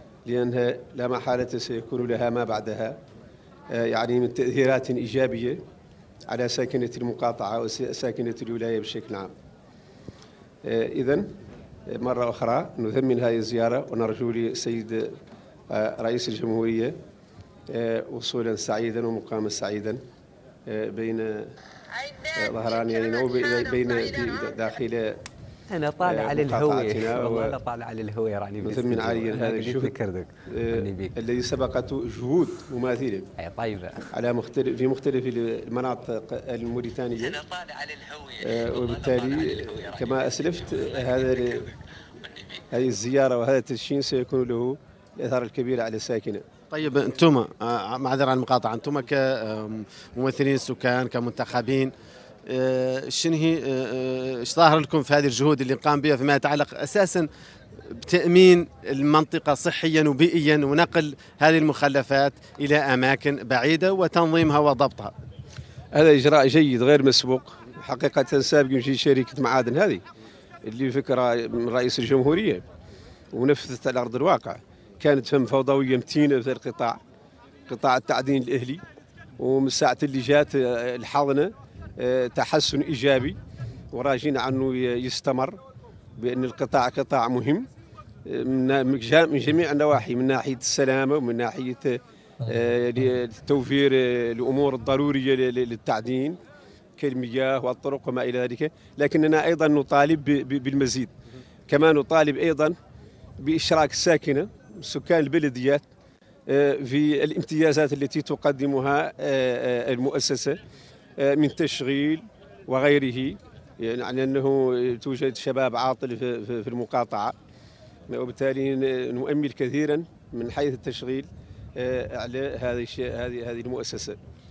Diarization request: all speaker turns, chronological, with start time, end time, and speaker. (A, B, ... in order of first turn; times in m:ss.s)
0:00.3-0:03.0 A
0:03.7-0:05.6 A
0:06.3-0:09.3 A
0:10.6-0:11.4 A
0:11.9-0:15.2 A
0:15.7-0:17.0 A
0:17.7-0:20.0 A
0:20.7-0:21.6 A
0:22.3-0:25.2 A
0:25.7-0:31.1 B
0:26.0-0:27.6 A
0:28.6-0:30.0 A
0:30.5-0:33.3 A
0:33.4-0:34.1 B
0:34.1-0:37.4 A
0:38.4-0:41.7 A
0:42.7-0:46.4 A
0:46.7-0:51.9 C
0:52.5-0:57.3 C
0:57.8-1:05.1 C
1:06.0-1:10.0 A
1:10.7-1:12.6 A
1:13.3-1:17.0 A
1:17.7-1:18.8 A
1:19.4-1:23.4 A
1:23.9-1:25.6 A
1:26.2-1:27.7 A
1:28.3-1:36.4 A
1:37.0-1:41.1 A
1:41.7-1:42.8 A
1:43.4-1:45.9 A
1:46.5-1:50.6 A
1:51.2-1:57.4 A
1:58.1-2:04.2 A